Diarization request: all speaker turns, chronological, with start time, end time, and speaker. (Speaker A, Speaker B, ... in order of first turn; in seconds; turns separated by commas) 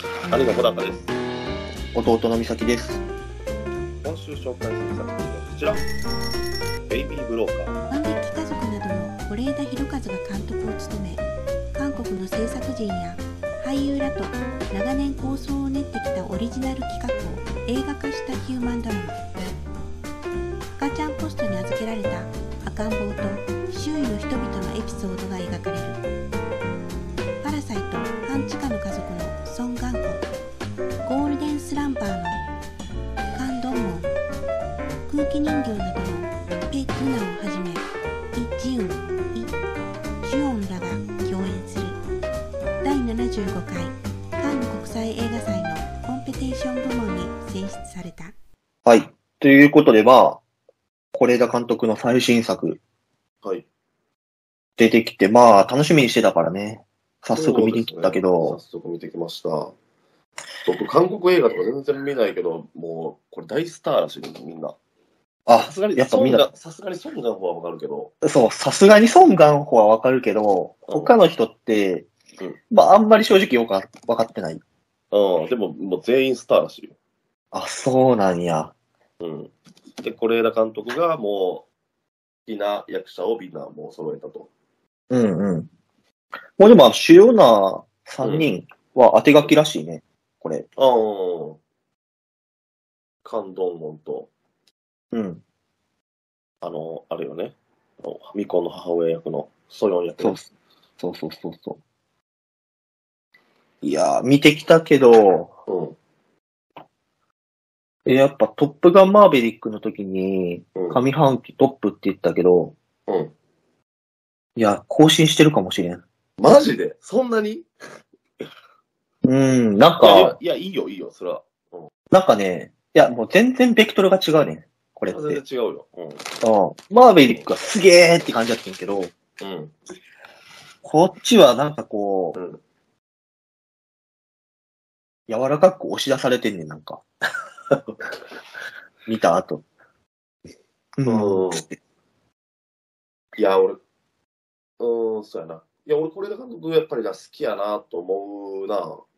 Speaker A: 0.3-1.1, Speaker B: 1.9-3.0, Speaker A: 4.0-5.8, Speaker A: 6.9-7.8, Speaker C: 7.9-19.3, Speaker C: 20.8-26.0, Speaker C: 27.4-30.2, Speaker C: 31.0-32.5, Speaker C: 33.3-34.1, Speaker C: 35.1-39.5, Speaker C: 40.2-42.0, Speaker C: 42.8-48.3, Speaker B: 48.9-50.4, Speaker B: 51.1-52.8, Speaker B: 54.8-58.6, Speaker A: 57.3-59.7, Speaker A: 60.6-64.8, Speaker B: 65.5-66.5, Speaker A: 65.6-68.1, Speaker B: 68.2-72.1, Speaker A: 70.8-71.2, Speaker B: 72.7-74.6, Speaker A: 75.1-77.0, Speaker B: 77.5-78.7, Speaker A: 79.2-81.7, Speaker A: 82.5-84.5, Speaker B: 85.1-85.7, Speaker B: 86.6-90.7, Speaker A: 88.2-88.5, Speaker A: 90.8-91.6, Speaker A: 93.2-94.3, Speaker B: 95.1-95.4, Speaker A: 96.6-100.4, Speaker B: 100.2-100.5, Speaker B: 101.0-101.8, Speaker B: 103.8-105.5, Speaker A: 105.7-106.0, Speaker B: 108.0-112.8, Speaker A: 110.8-111.0, Speaker A: 113.1-113.3, Speaker B: 114.5-116.0, Speaker A: 116.4-117.7, Speaker B: 119.2-120.3, Speaker A: 120.0-121.9, Speaker B: 122.1-125.4, Speaker A: 125.0-126.2, Speaker B: 126.4-129.1, Speaker A: 129.4-129.7, Speaker B: 130.8-132.4, Speaker A: 132.3-132.6, Speaker B: 135.3-137.0, Speaker B: 139.1-139.6, Speaker B: 141.0-141.8, Speaker A: 141.0-141.7, Speaker A: 143.4-143.8, Speaker A: 144.8-149.0